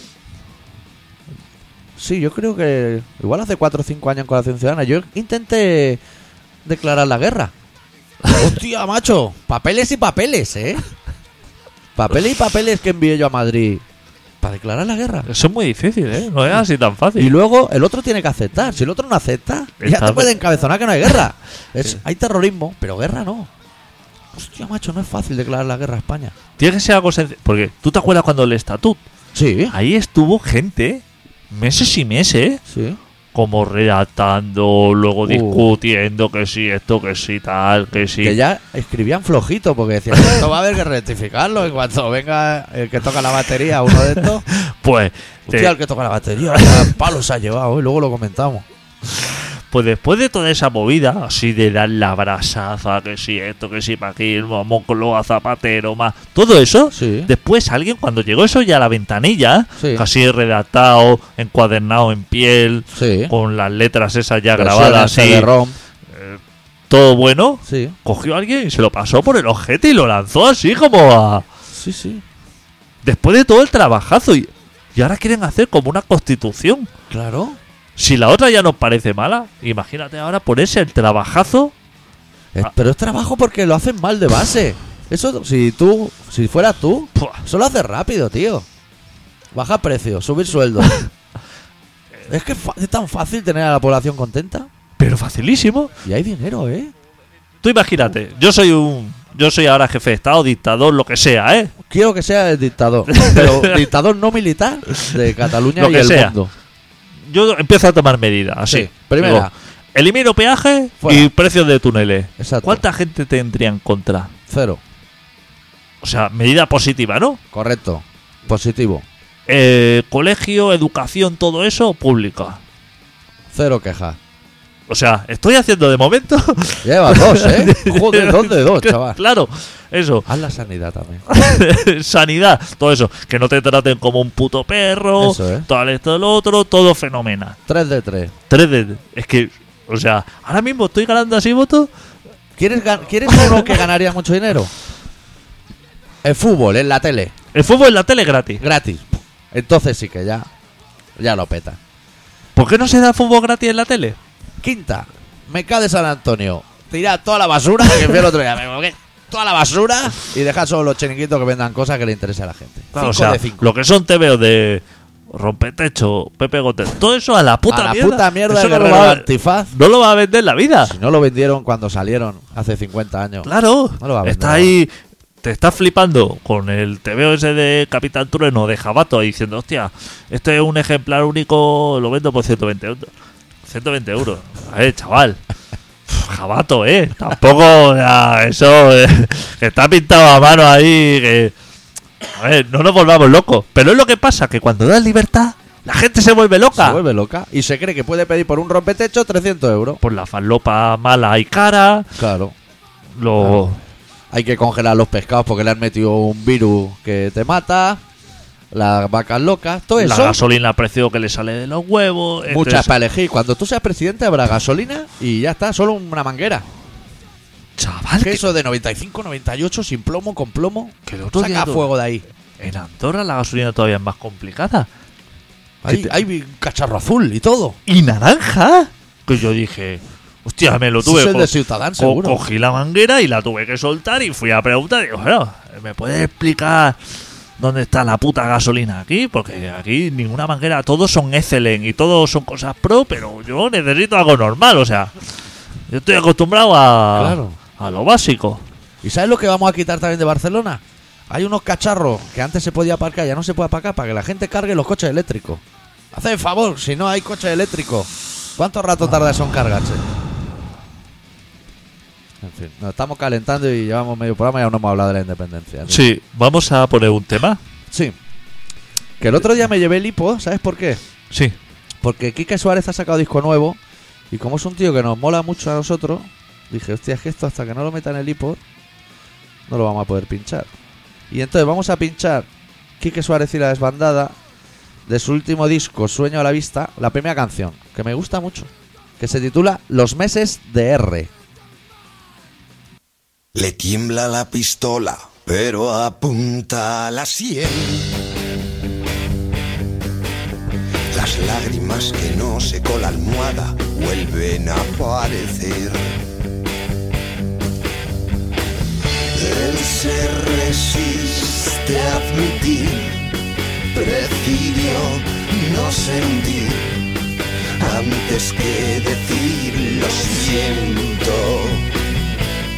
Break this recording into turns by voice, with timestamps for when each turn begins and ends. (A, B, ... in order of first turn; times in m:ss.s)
0:02.0-0:06.0 A
0:06.6-0:07.5 A
0:08.3-0:10.8 A
0:12.0-0:13.8 A
0:14.4-0:15.3 A
0:15.3-0:17.3 B
0:17.2-0:23.5 A
0:19.8-0:20.3 B
0:24.3-0:26.3 A
0:26.6-0:29.0 B
0:29.3-0:29.7 A
0:29.7-0:32.6 B
0:32.7-0:33.0 A
0:33.3-0:38.4 B
0:35.2-0:35.7 A
0:38.1-0:44.4 A
0:44.5-0:45.7 B
0:45.5-0:48.6 A
0:49.1-1:05.5 B
0:56.9-0:57.3 A
0:59.8-1:00.0 A
1:02.9-1:03.3 A
1:04.6-1:05.8 A
1:06.1-1:11.4 B
1:07.6-1:08.0 A
1:11.7-1:12.2 A
1:13.0-1:16.9 B
1:17.1-1:17.6 A
1:18.0-1:21.7 B
1:22.5-1:28.6 A
1:27.2-1:27.4 B
1:29.5-1:31.0 A
1:32.3-1:34.7 A
1:35.0-1:35.9 B
1:36.0-1:36.9 A
1:37.6-1:41.7 B
1:41.9-1:46.5 A
1:43.1-1:43.8 B
1:45.8-1:46.3 B
1:47.3-1:54.3 B
1:48.7-1:49.5 A
1:51.0-1:51.3 A
1:52.4-1:52.8 A
1:54.5-1:54.8 A
1:56.0-1:57.4 B
1:57.5-1:59.0 A
1:59.5-2:02.6 B
2:03.5-2:04.2 A
2:04.9-2:10.2 B
2:06.8-2:09.2 A
2:10.2-2:11.2 A
2:11.3-2:17.6 B
2:15.2-2:15.7 A
2:17.7-2:18.3 A
2:18.5-2:21.9 B
2:22.6-2:24.7 A
2:26.2-2:27.3 A
2:27.5-2:28.6 B
2:28.6-2:30.5 A
2:31.2-2:31.8 A
2:32.6-2:34.2 B
2:34.6-2:43.7 A
2:42.9-2:50.9 B
2:47.7-2:49.7 A
2:50.8-2:54.7 A
2:53.4-2:54.9 B
2:55.4-3:03.1 B
3:03.6-3:05.4 B
3:06.1-3:11.5 B
3:12.3-3:17.0 B
3:16.7-3:20.0 A
3:20.0-3:22.1 B
3:22.2-3:22.5 A
3:23.2-3:23.8 B
3:24.3-3:28.0 A
3:28.7-3:30.4 A
3:30.0-3:32.9 B
3:32.5-3:36.6 A
3:37.8-3:38.4 B
3:38.2-3:42.2 A
3:41.0-3:41.9 B
3:42.6-3:44.9 B
3:45.8-3:47.8 A
3:45.8-3:46.2 B
3:47.9-3:57.0 B
3:51.0-3:52.4 A
3:57.6-4:05.1 B
4:05.9-4:08.6 B
4:07.1-4:07.6 A
4:09.0-4:20.0 A
4:22.4-4:26.0 A
4:25.9-4:27.6 B
4:27.9-4:28.2 A
4:29.2-4:31.0 A
4:31.3-4:31.6 B
4:32.0-4:33.8 A
4:34.3-4:38.6 A
4:39.7-4:40.7 A
4:41.3-4:42.5 A
4:43.0-4:44.4 A
4:45.1-4:51.3 A
4:53.5-4:58.1 C
5:01.1-5:06.1 C
5:09.3-5:13.3 C
5:13.9-5:17.0 C
5:17.8-5:21.9 C